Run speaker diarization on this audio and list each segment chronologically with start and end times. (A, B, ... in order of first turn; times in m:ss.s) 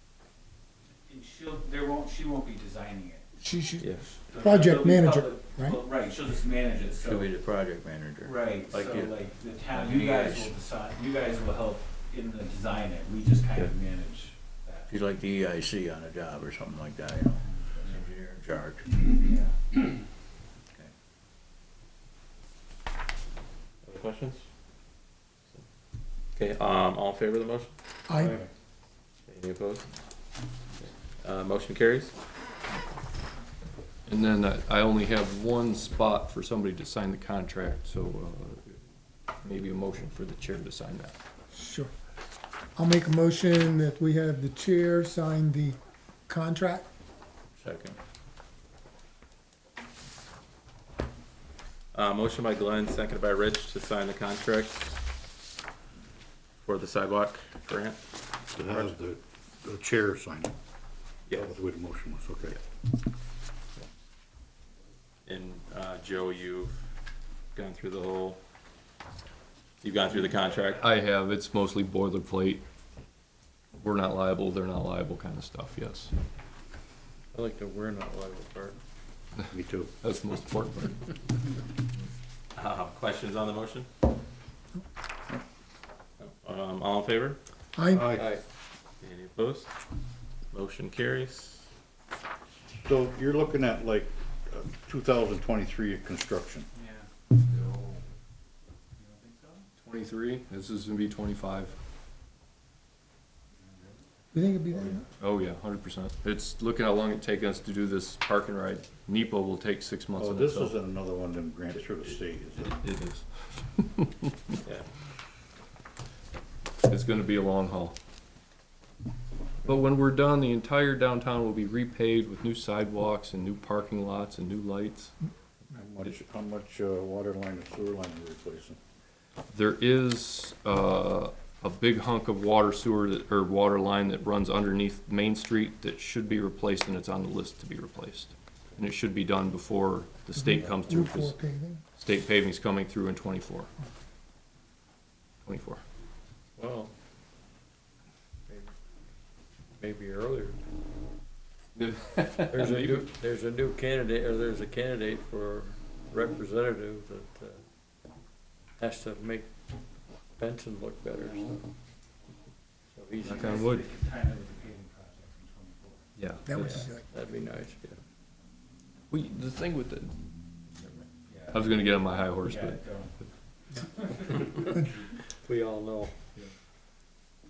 0:01.1-0:03.2 A
0:03.4-0:05.8 B
0:03.8-0:04.1 C
0:04.1-0:07.3 A
0:06.8-0:10.6 D
0:08.2-0:14.9 A
0:14.9-0:19.1 D
0:17.5-0:17.9 A
0:19.2-0:19.8 A
0:23.8-0:24.4 C
0:26.4-0:27.7 C
0:28.1-0:28.4 B
0:29.3-0:29.9 C
0:31.2-0:32.1 C
0:34.1-0:38.8 E
0:39.4-0:41.1 E
0:41.5-0:41.9 B
0:42.8-0:46.9 B
0:47.6-0:48.0 C
0:51.9-0:55.0 C
0:56.6-0:58.0 C
0:58.5-0:59.0 C
0:58.5-1:00.5 F
1:01.3-1:01.6 C
1:01.3-1:02.6 F
1:05.2-1:06.8 C
1:07.5-1:08.4 C
1:09.8-1:10.9 C
1:10.8-1:12.6 E
1:13.8-1:16.1 E
1:17.3-1:18.8 G
1:19.5-1:19.9 F
1:20.0-1:21.1 E
1:22.6-1:23.9 C
1:26.2-1:27.4 C
1:27.7-1:28.1 B
1:27.9-1:28.3 F
1:28.1-1:28.4 G
1:29.0-1:29.7 C
1:30.5-1:31.7 C
1:32.8-1:36.7 F
1:36.7-1:38.0 A
1:39.0-1:39.7 A
1:39.8-1:41.7 E
1:43.6-1:44.1 A
1:44.3-1:45.0 B
1:45.2-1:50.7 E
1:50.1-1:52.7 F
1:52.6-1:54.6 E
1:56.8-1:57.9 E
1:59.6-2:05.1 E
2:05.7-2:08.8 F
2:09.5-2:21.4 E
2:20.3-2:21.8 B
2:22.0-2:23.7 E
2:25.4-2:25.8 E
2:26.6-2:26.9 G
2:29.8-2:30.6 G
2:31.8-2:33.1 E
2:32.5-2:37.6 G
2:38.8-2:39.5 G
2:40.4-2:41.6 G
2:42.9-2:43.6 G
2:43.2-2:43.8 E
2:43.3-2:46.0 A
2:46.2-2:46.8 E
2:46.4-2:47.0 B
2:46.6-2:47.9 G
2:49.1-2:50.1 E
2:50.8-2:52.8 E
2:51.2-2:51.8 A
2:52.4-2:53.2 A
2:53.8-2:54.6 A
2:55.4-2:56.1 G